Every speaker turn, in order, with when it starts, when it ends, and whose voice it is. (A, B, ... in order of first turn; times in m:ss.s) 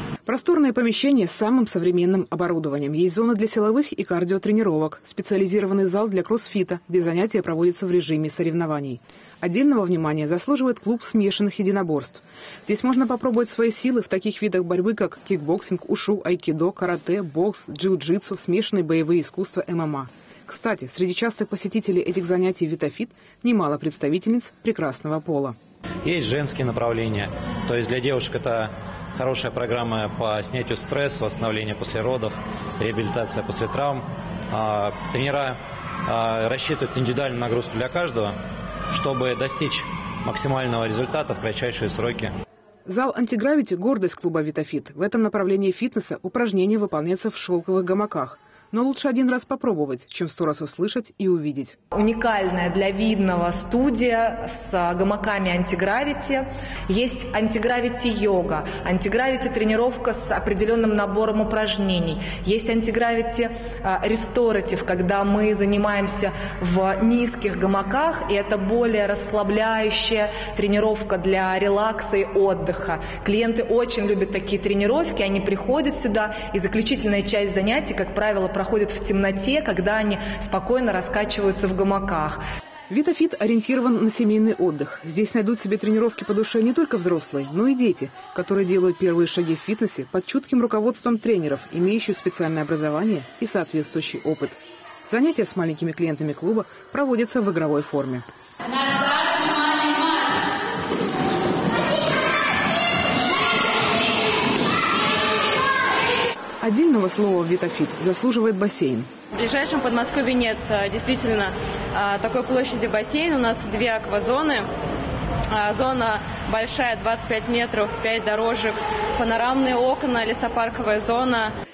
0:00.2-0:25.6 A
0:26.0-0:38.3 B
0:38.9-0:42.3 B
0:42.8-0:51.8 A
0:51.9-1:22.4 C
1:22.9-1:38.2 A
1:46.6-1:49.1 A
1:49.3-1:54.7 D
1:55.5-2:01.5 D